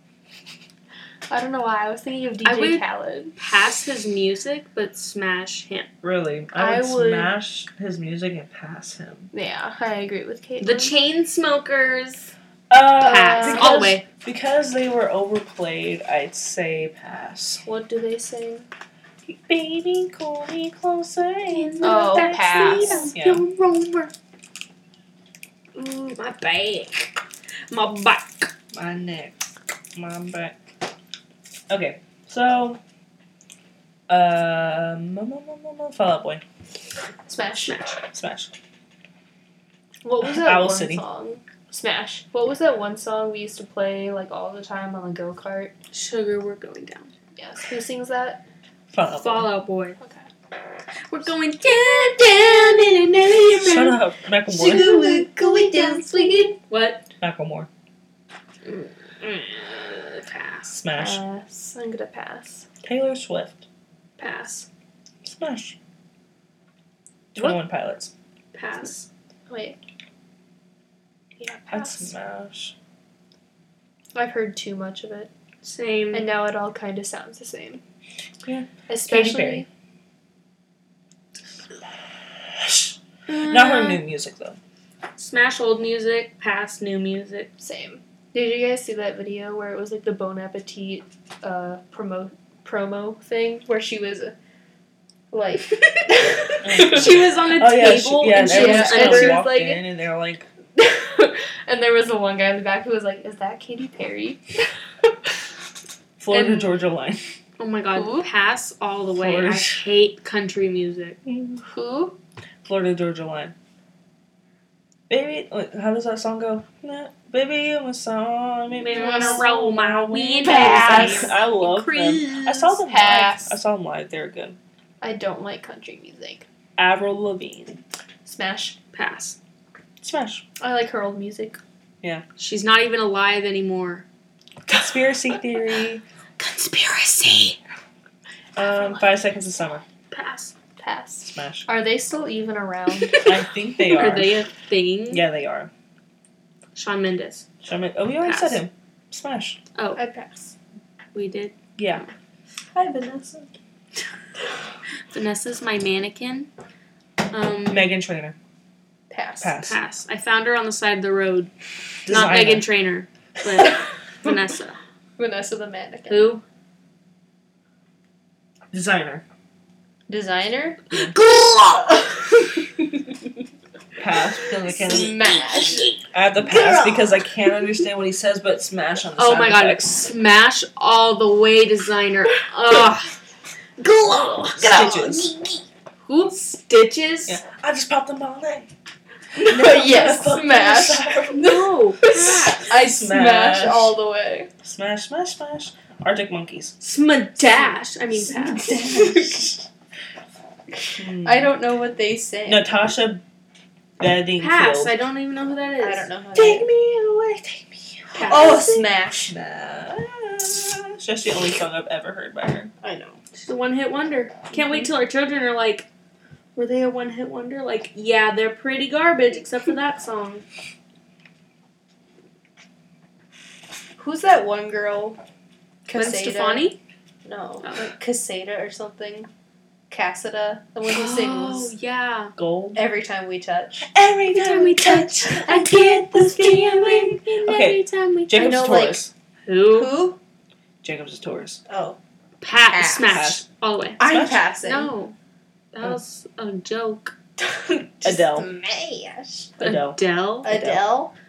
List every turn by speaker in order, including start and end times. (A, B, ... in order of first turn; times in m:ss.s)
0:01.3-0:03.4 A
0:02.4-0:02.8 B
0:03.4-0:05.9 B
0:06.0-0:09.3 C
0:06.5-0:07.3 A
0:09.3-0:10.9 A
0:10.6-0:12.3 B
0:12.7-0:17.6 C
0:13.0-0:14.0 B
0:13.0-0:13.8 A
0:17.6-0:18.7 A
0:19.2-0:23.4 C
0:21.5-0:24.1 B
0:21.8-0:23.1 A
0:25.7-0:28.5 B
0:28.7-0:29.4 C
0:29.9-0:30.6 C
0:31.7-0:32.8 C
0:34.1-0:36.4 C
0:37.2-0:37.8 A
0:37.6-0:38.0 B
0:38.1-0:38.5 C
0:40.0-0:45.7 A
0:40.2-0:41.0 C
0:45.9-0:47.1 B
0:47.4-0:48.4 A
0:48.9-0:49.5 C
0:49.1-0:50.0 B
0:50.0-0:50.2 A
0:51.1-0:54.0 B
0:52.1-0:53.9 A
0:53.4-0:55.3 C
0:54.5-0:56.6 A
0:54.7-0:57.0 B
0:57.2-0:57.7 C
0:58.6-1:00.8 B
1:00.7-1:01.2 C
1:00.9-1:02.7 A
1:02.8-1:03.6 C
1:04.2-1:04.7 B
1:05.2-1:05.8 C
1:07.3-1:08.1 C
1:08.5-1:09.1 B
1:09.5-1:09.8 A
1:11.4-1:12.1 A
1:11.7-1:12.7 C
1:14.1-1:15.3 A
1:15.6-1:16.3 B
1:16.1-1:17.8 A
1:18.4-1:19.6 C
1:18.9-1:19.7 A
1:22.5-1:24.6 C
1:23.3-1:24.0 B
1:25.2-1:27.5 B
1:27.6-1:34.3 A
1:35.3-1:37.4 A
1:36.6-1:40.5 C
1:36.7-1:39.8 B
1:38.3-1:39.7 A
1:40.8-1:45.1 A
1:46.2-1:47.2 C
1:46.3-1:46.7 A
1:47.6-1:51.2 B
1:47.9-1:48.3 A
1:49.1-1:49.8 C
1:51.3-1:51.6 C
1:51.6-1:52.2 A
1:52.6-1:53.5 C
1:55.1-2:04.6 C
1:58.7-2:02.8 B
1:58.9-1:59.4 A
2:00.4-2:01.4 A
2:02.9-2:03.6 A
2:05.0-2:06.4 A
2:06.8-2:07.8 C
2:08.2-2:08.8 A
2:08.9-2:09.4 B
2:10.0-2:10.4 C
2:10.6-2:11.6 A
2:12.4-2:14.0 B
2:14.7-2:16.0 C
2:16.4-2:17.6 B
2:18.6-2:19.8 C
2:18.6-2:19.0 A
2:20.1-2:20.5 B
2:20.8-2:23.3 A
2:21.3-2:21.7 C
2:22.9-2:25.2 B
2:23.2-2:24.4 C
2:25.1-2:25.7 C
2:26.7-2:27.5 B
2:27.6-2:29.6 C
2:28.2-2:28.6 B
2:29.7-2:30.0 B
2:30.0-2:30.5 A
2:31.1-2:32.1 B
2:31.8-2:32.0 C
2:32.7-2:33.5 A
2:35.1-2:36.5 B
2:37.3-2:37.9 B
2:37.7-2:38.4 C
2:39.1-2:39.6 A
2:39.4-2:39.8 C
2:39.6-2:41.5 B
2:42.0-2:42.7 C
2:42.1-2:44.8 B
2:45.2-2:46.3 A
2:46.1-2:46.4 B
2:48.7-2:49.2 C
2:50.1-2:50.8 A
2:51.1-2:52.1 B
2:51.9-2:52.8 A
2:54.0-2:55.2 C
2:54.6-2:55.9 A
2:54.9-2:56.0 B
2:56.1-2:59.9 C
2:56.5-2:57.3 A
2:59.1-3:03.1 B
3:03.8-3:05.5 A
3:04.0-3:05.3 B
3:04.6-3:05.3 C
3:06.1-3:07.4 B
3:07.3-3:08.7 C
3:09.4-3:11.1 A
3:09.4-3:11.7 C
3:11.3-3:12.7 B
3:12.0-3:14.5 A
3:12.7-3:14.0 C
3:14.6-3:16.7 C
3:16.8-3:18.9 B
3:17.5-3:17.8 A
3:18.1-3:19.7 C
3:21.0-3:21.5 C
3:21.1-3:22.7 A
3:22.4-3:23.2 C
3:24.0-3:24.9 C
3:24.4-3:26.1 B
3:25.8-3:26.7 A
3:26.3-3:32.7 C
3:28.1-3:28.8 B
3:28.2-3:29.3 A
3:32.8-3:33.2 A
3:33.4-3:35.9 B
3:36.6-3:40.4 B
3:44.0-3:45.2 A
3:45.8-3:46.7 A
3:45.9-3:46.8 B
3:47.2-3:49.3 A
3:47.6-3:47.9 B
3:49.9-3:51.7 A
3:50.9-3:52.3 B
3:52.4-3:52.8 C
3:52.7-3:53.9 A
3:53.8-3:59.1 C
3:54.3-3:58.6 B
3:58.3-3:59.0 A
3:59.5-4:00.0 B
3:59.7-4:00.2 A
4:00.8-4:01.6 C
4:01.7-4:02.0 A
4:02.4-4:04.0 B
4:02.6-4:03.2 A
4:03.0-4:03.4 C
4:04.0-4:04.9 A
4:04.0-4:04.4 C
4:04.6-4:05.2 B
4:05.7-4:07.1 B
4:07.4-4:09.5 A
4:08.0-4:08.5 C
4:09.6-4:10.8 C
4:09.6-4:10.5 B
4:10.4-4:11.1 A